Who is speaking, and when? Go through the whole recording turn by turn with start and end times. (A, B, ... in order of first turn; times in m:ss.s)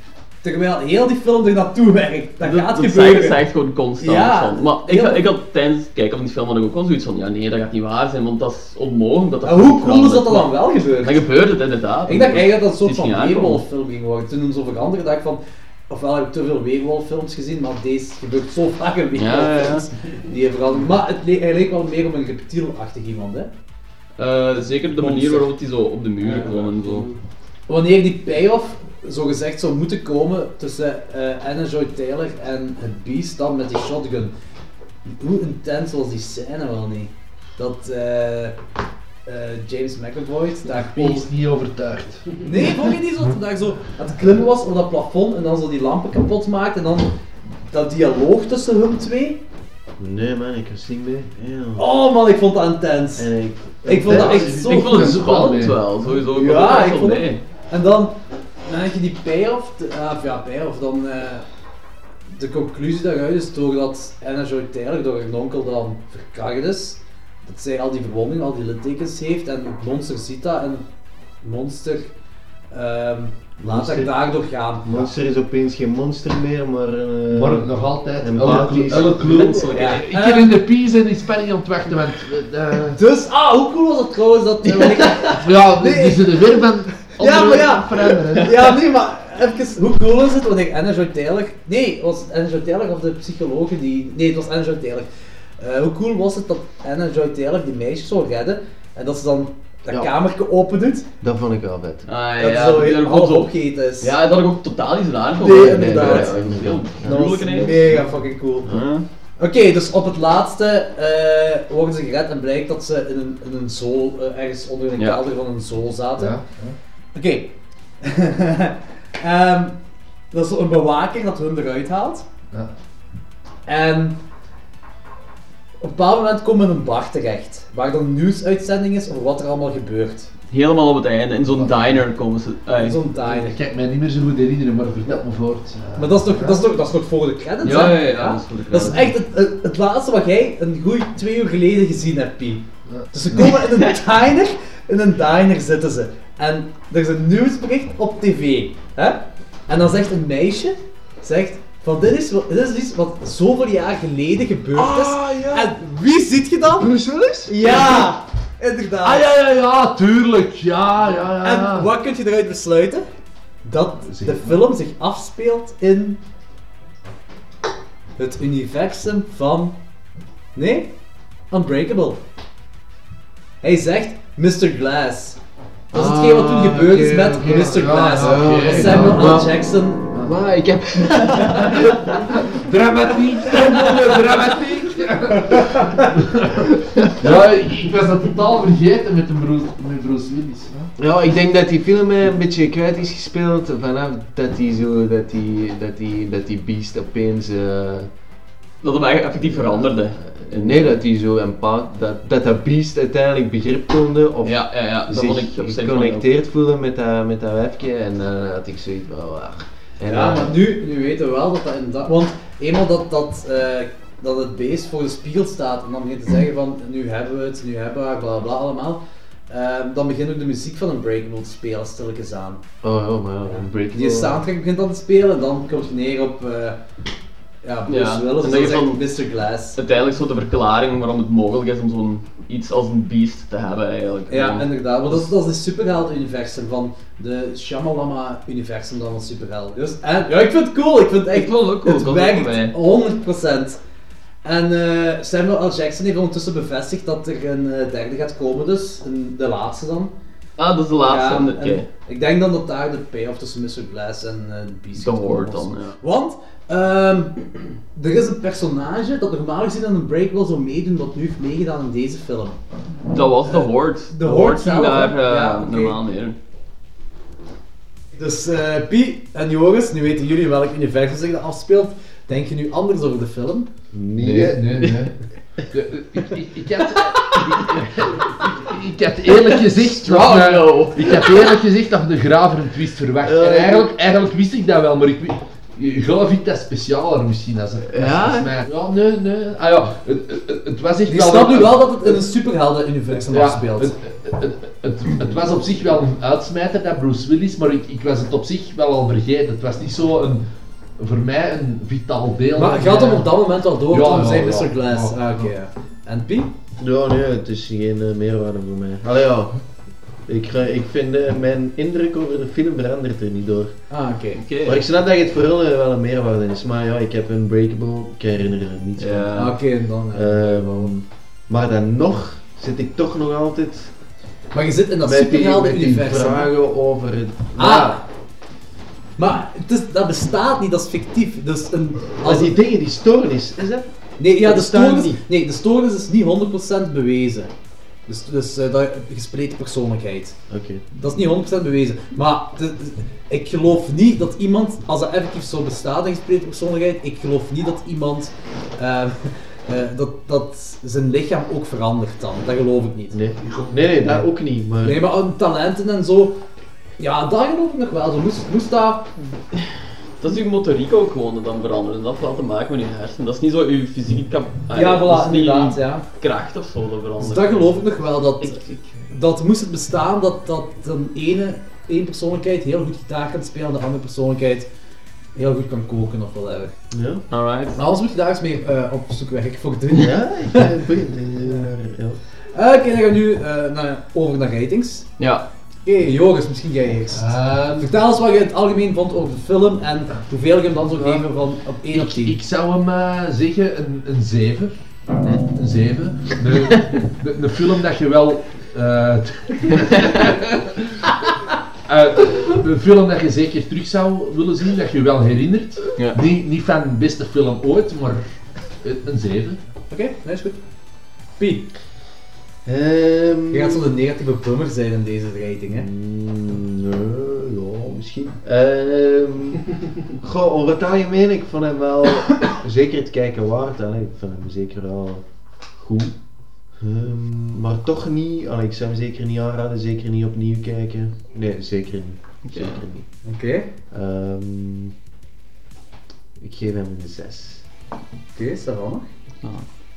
0:00.4-0:03.4 A
0:02.4-0:13.6 B
0:04.0-0:05.2 A
0:09.4-0:11.2 A
0:12.0-0:23.5 A
0:19.1-0:19.9 B
0:24.2-0:27.1 B
0:24.9-0:25.5 A
0:26.4-0:27.1 C
0:27.7-0:34.3 A
0:35.1-0:38.6 A
0:39.2-0:41.3 A
0:40.7-0:42.8 C
0:42.4-0:47.1 A
0:47.7-0:49.4 A
0:50.0-0:51.9 D
0:51.8-0:53.3 A
0:53.2-0:54.6 D
0:53.8-0:55.4 A
0:54.0-0:55.9 C
0:54.5-0:57.4 B
0:56.3-1:01.4 A
1:02.3-1:10.8 A
1:11.4-1:12.1 A
1:12.7-1:15.1 A
1:13.6-1:14.2 D
1:14.8-1:19.2 D
1:17.3-1:23.0 C
1:18.8-1:20.0 B
1:19.7-1:20.6 A
1:22.9-1:26.6 A
1:24.6-1:25.2 B
1:25.3-1:28.7 C
1:27.2-1:35.1 A
1:35.6-1:41.1 A
1:41.2-1:42.1 D
1:42.0-1:48.0 B
1:42.4-1:44.1 A
1:45.4-1:48.0 D
1:45.4-1:48.7 A
1:48.6-1:49.0 B
1:49.4-1:56.4 A
1:55.0-1:55.2 B
1:56.2-1:56.8 C
1:57.1-1:59.8 A
2:00.3-2:02.2 A
2:03.6-2:04.2 A
2:05.8-2:10.3 A
2:10.5-2:13.0 B
2:11.5-2:12.0 C
2:12.8-2:13.6 A
2:13.1-2:16.6 C
2:16.0-2:36.9 A
2:17.6-2:19.1 B
2:17.7-2:18.1 C
2:22.9-2:23.6 C
2:34.8-2:35.6 D
2:35.0-2:35.5 C
2:36.8-2:37.8 D
2:37.5-2:39.3 A
2:39.0-2:41.9 C
2:41.4-2:43.0 A
2:43.6-2:46.2 A
2:44.1-2:44.6 C
2:48.2-2:49.8 A
2:50.5-2:50.9 A
2:51.5-2:52.2 A
2:53.6-2:55.4 A
2:55.9-3:00.1 A
2:55.9-3:02.2 D
2:57.4-2:59.5 C
3:00.1-3:00.5 C
3:01.2-3:10.9 C
3:05.7-3:06.0 A
3:11.0-3:18.1 D
3:18.8-3:20.9 B
3:19.4-3:30.6 D
3:24.4-3:26.2 B
3:30.1-3:42.6 A
3:42.8-3:44.4 D
3:43.5-3:46.8 A
3:47.6-3:49.8 A
3:47.9-3:49.1 B
3:49.8-3:55.3 B
3:54.3-4:03.8 A
4:01.3-4:02.7 B
4:04.4-4:10.1 A
4:10.6-4:11.9 B
4:11.0-4:22.6 A
4:15.0-4:16.0 B
4:23.1-4:26.3 B
4:23.4-4:26.0 A
4:28.2-4:33.7 A
4:33.9-4:35.0 D
4:34.2-4:35.1 C
4:35.7-4:52.2 C
4:39.3-4:41.5 B
4:43.2-4:43.9 D
4:47.8-4:48.6 B
4:51.1-4:53.9 A
4:53.3-5:00.4 C
5:01.0-5:03.3 C
5:02.6-5:06.5 A
5:03.9-5:05.5 C
5:06.8-5:09.6 D
5:10.3-5:13.8 D
5:13.9-5:14.4 A
5:14.4-5:14.8 B
5:14.6-5:19.6 D
5:19.0-5:19.5 B
5:19.4-5:20.9 A
5:20.1-5:23.9 D
5:24.5-5:26.5 A
5:25.0-5:28.0 D
5:27.6-5:28.0 A
5:29.2-5:32.5 A
5:32.1-5:35.2 D
5:34.2-5:37.5 A
5:38.1-5:40.4 A
5:40.5-5:40.8 D
5:40.9-5:53.2 A
5:53.1-5:55.0 D
5:53.4-5:54.2 C
5:54.8-5:56.4 A
5:57.0-5:59.1 A
6:00.2-6:07.9 B
6:04.7-6:06.0 A
6:07.2-6:14.7 A
6:08.4-6:08.8 B
6:15.3-6:16.7 A
6:16.9-6:17.2 D
6:17.3-6:17.8 B
6:17.7-6:20.6 A
6:20.0-6:22.2 D
6:22.5-6:25.1 A
6:25.2-6:25.4 B
6:25.8-6:32.4 A
6:27.1-6:27.9 C
6:31.9-6:34.7 C
6:35.5-6:41.1 C
6:39.8-6:40.3 B
6:41.9-6:48.2 C
6:48.8-6:49.6 C
6:49.9-6:50.6 A
6:51.4-6:51.7 A
6:52.6-6:53.9 D
6:53.5-6:55.9 A
6:55.7-7:05.2 D
7:05.8-7:06.1 D
7:06.8-7:13.0 D
7:12.4-7:12.8 B
7:13.2-7:13.7 A
7:13.9-7:14.9 D
7:16.4-7:17.6 D
7:18.3-7:19.1 A